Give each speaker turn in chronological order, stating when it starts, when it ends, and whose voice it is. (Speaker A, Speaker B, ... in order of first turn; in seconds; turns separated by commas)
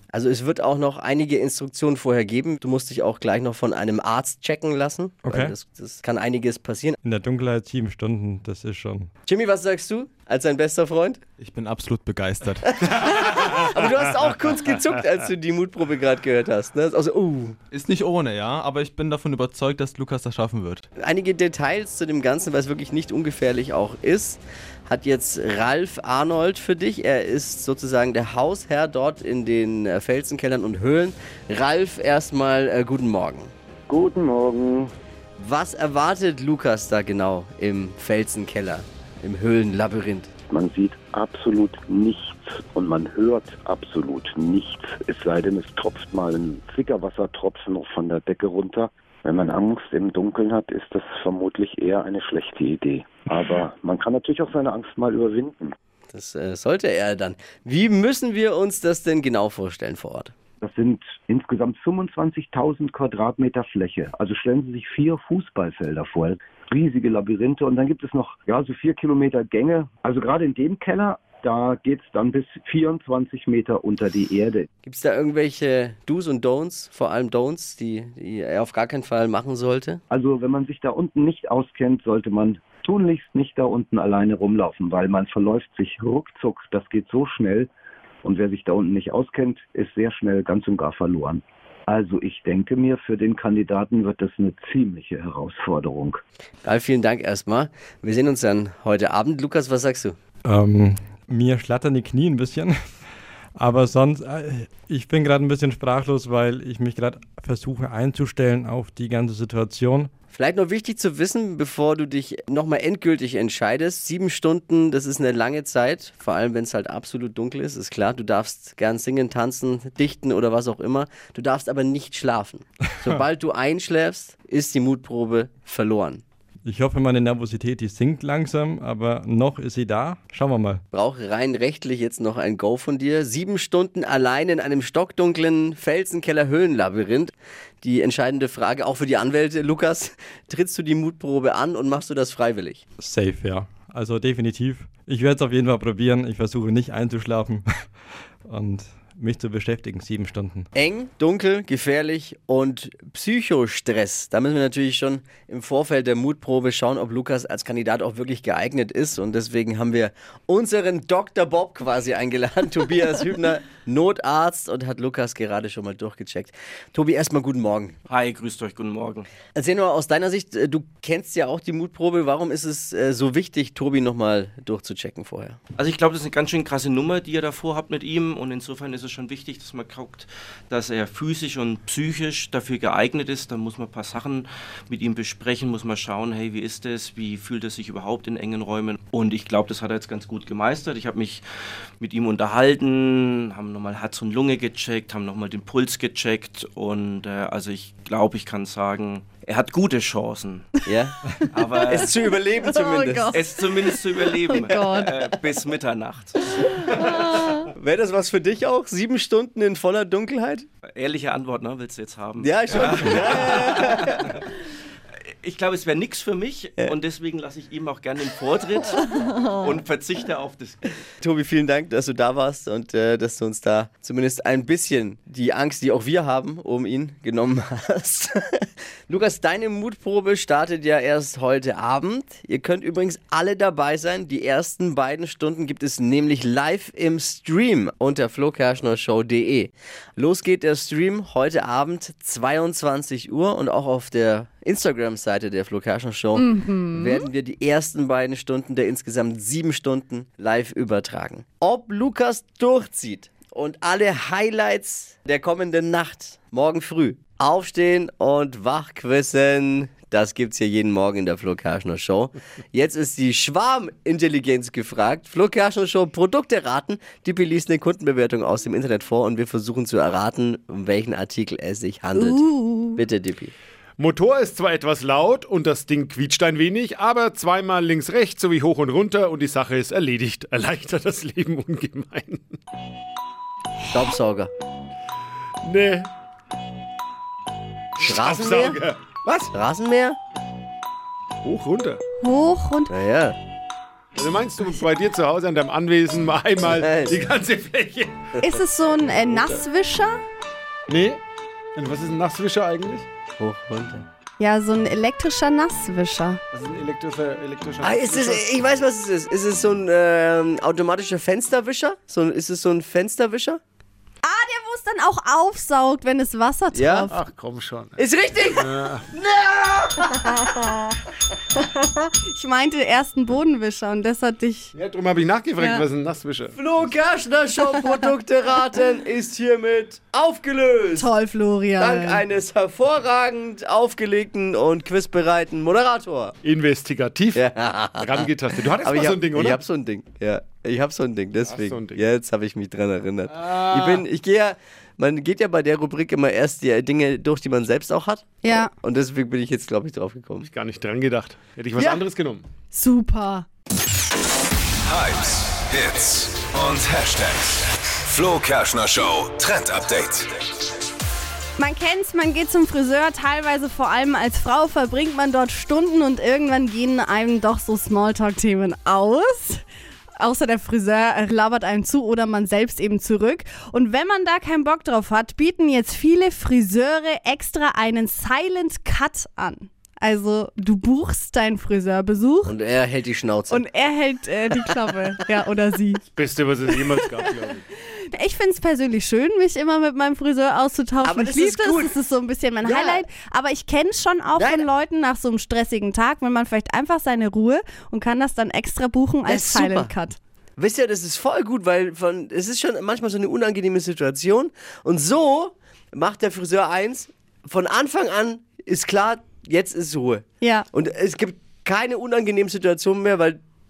Speaker A: 0.1-7.0, Speaker B: 5.2-5.5, Speaker B: 7.0-9.1, Speaker A: 9.2-11.2, Speaker C: 11.4-13.0, Speaker A: 12.6-17.6, Speaker C: 17.7-20.9, Speaker A: 21.0-33.5, Speaker D: 33.9-34.9, Speaker A: 35.4-40.3, Speaker D: 40.5-55.7, Speaker A: 56.1-60.3, Speaker D: 60.6-74.7, Speaker A: 74.8-80.0, Speaker D: 80.1-87.7, Speaker D: 88.2-96.2, Speaker A: 96.6-100.2, Speaker B: 100.5-102.7, Speaker B: 103.6-110.1, Speaker A: 110.3-126.2, Speaker B: 126.6-130.8, Speaker A: 130.9-142.8, Speaker B: 143.0-147.7, Speaker B: 148.4-150.7, Speaker A: 150.7-167.9, Speaker E: 168.1-169.3, Speaker A: 169.5-175.6, Speaker E: 175.8-191.4, Speaker E: 192.0-200.7, Speaker A: 200.8-201.2, Speaker E: 201.5-202.2, Speaker A: 201.8-203.4, Speaker F: 202.6-205.3, Speaker E: 203.3-206.8, Speaker F: 206.9-207.7, Speaker A: 207.7-210.7, Speaker E: 210.9-214.5, Speaker A: 212.4-214.2, Speaker E: 215.4-221.0, Speaker A: 221.2-272.4, Speaker F: 246.4-247.3, Speaker F: 272.1-273.0, Speaker A: 272.9-273.5, Speaker G: 274.0-282.5, Speaker A: 283.9-284.5, Speaker G: 285.6-286.1, Speaker G: 288.0-289.0, Speaker A: 288.0-290.2, Speaker G: 291.4-292.0, Speaker F: 292.2-292.9, Speaker A: 292.9-293.4, Speaker G: 294.1-298.2, Speaker A: 296.8-297.2, Speaker F: 298.4-300.2, Speaker G: 300.9-301.2, Speaker G: 301.8-303.1, Speaker A: 303.4-304.1, Speaker F: 304.4-306.4, Speaker G: 306.5-308.4, Speaker A: 307.8-313.6, Speaker F: 314.2-317.1, Speaker A: 316.7-317.1, Speaker G: 317.1-319.0, Speaker A: 318.0-320.5, Speaker F: 322.2-324.7, Speaker G: 324.7-326.6, Speaker A: 326.5-331.1, Speaker F: 331.0-332.2, Speaker A: 331.8-336.3, Speaker G: 336.4-337.4, Speaker A: 337.3-338.3, Speaker G: 338.0-339.6, Speaker A: 338.8-350.5, Speaker G: 341.4-342.0, Speaker G: 343.3-344.0, Speaker F: 348.4-348.7, Speaker G: 350.4-352.4, Speaker A: 351.8-352.0, Speaker F: 352.7-353.4, Speaker H: 354.9-360.3, Speaker F: 361.6-369.6, Speaker F: 370.2-382.5, Speaker A: 382.4-383.6, Speaker F: 383.5-386.0, Speaker G: 386.1-387.6, Speaker F: 388.1-400.2, Speaker A: 391.0-391.9, Speaker A: 392.6-393.0, Speaker A: 394.4-394.7, Speaker A: 399.2-399.9, Speaker A: 400.6-413.4, Speaker F: 410.4-410.7